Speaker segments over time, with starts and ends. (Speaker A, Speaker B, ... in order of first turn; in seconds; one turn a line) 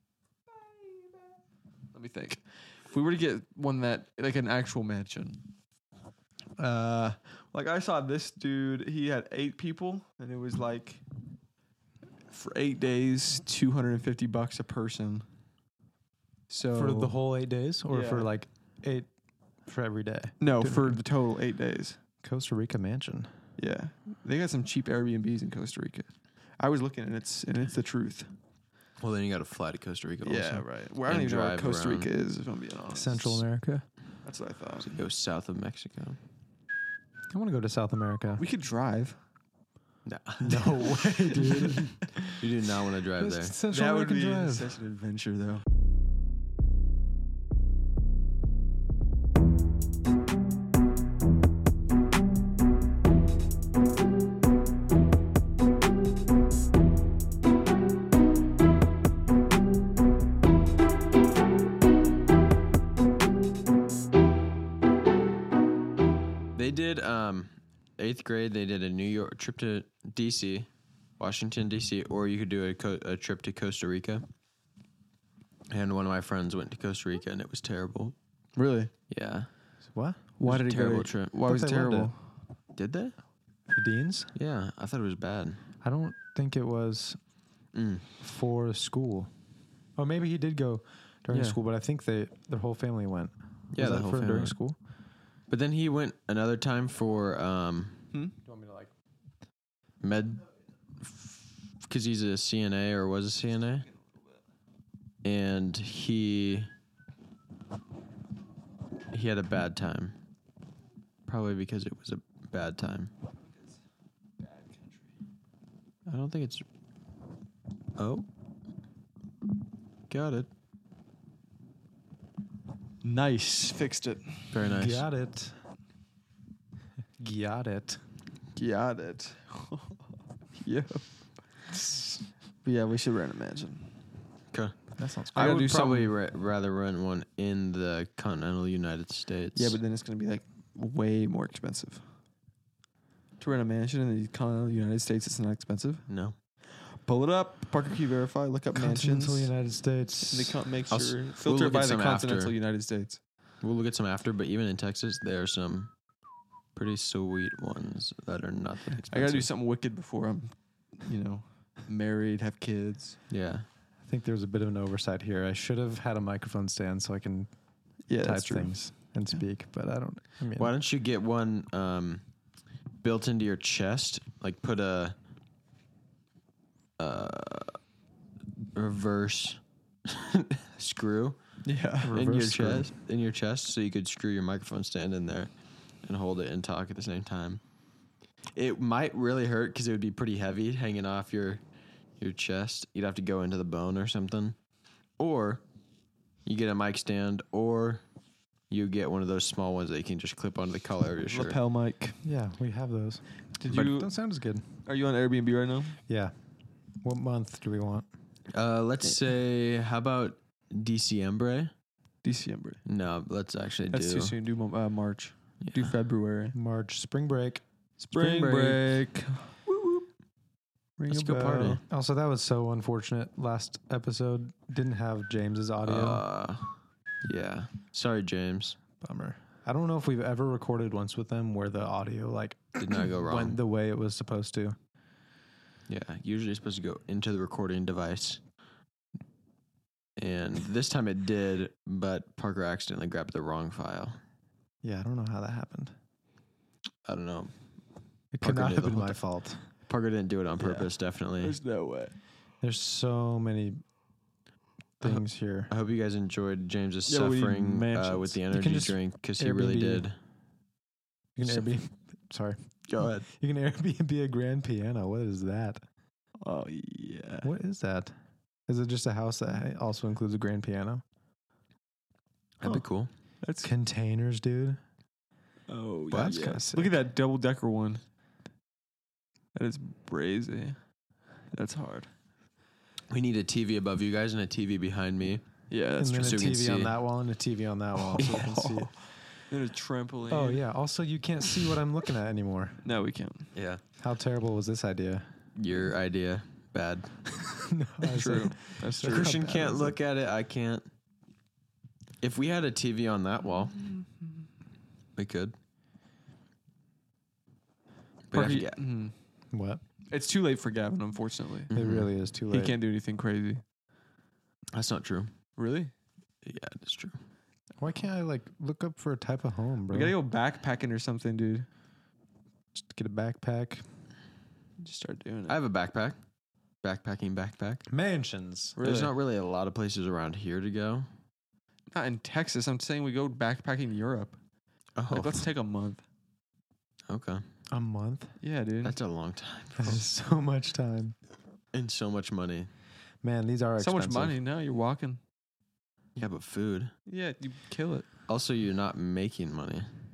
Speaker A: 1.9-5.4
Speaker A: 6.6-11.0
Speaker A: 12.3-15.3
Speaker A: 16.5-17.1
Speaker B: 16.7-19.1
Speaker A: 17.9-18.3
Speaker B: 19.7-21.0
Speaker A: 20.4-22.0
Speaker B: 22.2-23.3
Speaker A: 23.6-28.3
Speaker C: 29.0-32.1
Speaker A: 30.2-33.4
Speaker B: 32.9-33.9
Speaker A: 34.2-35.0
Speaker C: 34.8-36.2
Speaker B: 37.3-38.4
Speaker A: 38.4-39.2
Speaker C: 40.1-40.9
Speaker B: 40.4-42.3
Speaker C: 42.3-43.5
Speaker B: 43.2-44.8
Speaker A: 43.7-45.6
Speaker C: 66.5-74.3
Speaker C: 75.7-78.2
Speaker A: 78.6-78.9
Speaker C: 79.1-79.5
Speaker B: 79.9-80.2
Speaker A: 80.4-82.2
Speaker C: 80.4-81.3
Speaker B: 81.5-82.1
Speaker C: 82.8-83.2
Speaker B: 83.7-84.3
Speaker C: 84.3-85.6
Speaker B: 85.8-87.2
Speaker C: 87.7-88.0
Speaker B: 88.2-89.3
Speaker B: 90.0-94.8
Speaker A: 91.3-91.6
Speaker C: 93.7-94.6
Speaker C: 95.5-98.0
Speaker B: 98.5-98.9
Speaker C: 100.0-100.5
Speaker C: 101.0-103.9
Speaker C: 105.2-106.7
Speaker C: 109.1-110.2
Speaker C: 111.3-113.1
Speaker A: 114.4-115.0
Speaker C: 116.1-116.7
Speaker C: 118.0-118.3
Speaker C: 120.1-120.5
Speaker A: 123.0-124.5
Speaker C: 124.5-125.0
Speaker B: 124.6-125.6
Speaker B: 127.2-128.0
Speaker A: 128.6-130.0
Speaker A: 130.6-131.1
Speaker B: 131.7-132.2
Speaker A: 132.6-133.9
Speaker C: 134.5-134.8
Speaker B: 135.0-135.7
Speaker C: 135.3-139.8
Speaker A: 135.3-136.1
Speaker A: 139.6-142.0
Speaker A: 143.4-146.1
Speaker C: 146.1-146.3
Speaker A: 146.8-149.5
Speaker B: 148.7-150.6
Speaker A: 150.3-153.2
Speaker C: 150.9-152.6
Speaker C: 153.6-155.9
Speaker C: 156.8-159.5
Speaker A: 159.1-163.2
Speaker C: 163.3-163.7
Speaker B: 164.1-167.5
Speaker A: 168.1-169.4
Speaker B: 168.2-170.7
Speaker C: 170.6-172.2
Speaker C: 173.0-175.2
Speaker C: 177.0-177.8
Speaker C: 178.8-181.4
Speaker A: 181.7-182.2
Speaker B: 182.0-182.9
Speaker C: 182.1-185.5
Speaker C: 186.0-187.6
Speaker C: 188.6-191.6
Speaker C: 192.2-194.6
Speaker C: 195.2-195.6
Speaker C: 196.4-198.0
Speaker C: 198.7-201.6
Speaker A: 201.2-202.2
Speaker B: 202.2-204.6
Speaker A: 203.6-204.2
Speaker A: 204.8-206.0
Speaker B: 206.1-206.3
Speaker B: 207.0-208.1
Speaker C: 208.5-211.7
Speaker A: 212.2-212.8
Speaker C: 212.8-214.4
Speaker A: 213.9-216.6
Speaker B: 216.5-217.6
Speaker A: 218.1-220.1
Speaker B: 218.1-218.8
Speaker A: 221.0-221.8
Speaker C: 221.1-221.8
Speaker B: 221.1-226.2
Speaker C: 225.8-228.8
Speaker B: 229.0-234.8
Speaker C: 232.8-233.6
Speaker C: 235.9-238.4
Speaker C: 240.2-244.2
Speaker B: 244.8-245.9
Speaker C: 247.1-247.5
Speaker B: 248.3-249.7
Speaker C: 248.4-249.2
Speaker C: 249.8-251.6
Speaker A: 250.6-252.2
Speaker B: 252.6-253.8
Speaker B: 255.0-255.7
Speaker C: 255.0-260.2
Speaker A: 257.1-258.4
Speaker B: 258.5-260.1
Speaker B: 261.4-265.8
Speaker C: 262.9-263.3
Speaker A: 266.4-267.5
Speaker B: 267.4-268.1
Speaker B: 268.7-271.0
Speaker C: 272.6-273.1
Speaker A: 273.4-273.7
Speaker B: 273.6-274.8
Speaker A: 275.7-278.0
Speaker B: 276.1-277.0
Speaker A: 279.6-280.8
Speaker A: 281.5-282.1
Speaker C: 283.1-285.4
Speaker A: 285.7-286.5
Speaker B: 286.0-288.9
Speaker C: 286.2-286.9
Speaker A: 287.9-290.6
Speaker B: 290.3-292.8
Speaker A: 292.9-293.5
Speaker C: 293.6-293.8
Speaker B: 294.0-295.3
Speaker C: 295.6-297.1
Speaker B: 297.6-300.0
Speaker A: 298.0-299.4
Speaker C: 299.0-300.9
Speaker C: 302.2-303.8
Speaker C: 305.2-305.5
Speaker C: 308.3-308.8
Speaker A: 308.3-309.1
Speaker B: 309.5-309.8
Speaker A: 310.1-311.7
Speaker C: 311.7-312.1
Speaker B: 311.7-312.8
Speaker A: 312.5-313.6
Speaker C: 314.7-315.3
Speaker A: 315.6-315.9
Speaker C: 316.4-317.2
Speaker B: 317.8-320.1
Speaker A: 319.9-321.7
Speaker B: 322.8-323.8
Speaker A: 324.8-325.6
Speaker C: 325.5-326.2
Speaker C: 326.8-327.9
Speaker B: 327.9-328.8
Speaker A: 328.8-329.1
Speaker C: 328.8-331.1
Speaker A: 331.9-334.4
Speaker C: 335.0-335.4
Speaker A: 335.1-336.0
Speaker C: 337.1-337.4
Speaker B: 337.7-338.3
Speaker A: 338.4-339.0
Speaker C: 338.8-340.1
Speaker B: 339.8-341.1
Speaker C: 341.7-342.7
Speaker B: 343.2-344.4
Speaker A: 343.8-345.2
Speaker C: 346.2-346.9
Speaker A: 347.1-348.1
Speaker C: 348.3-349.9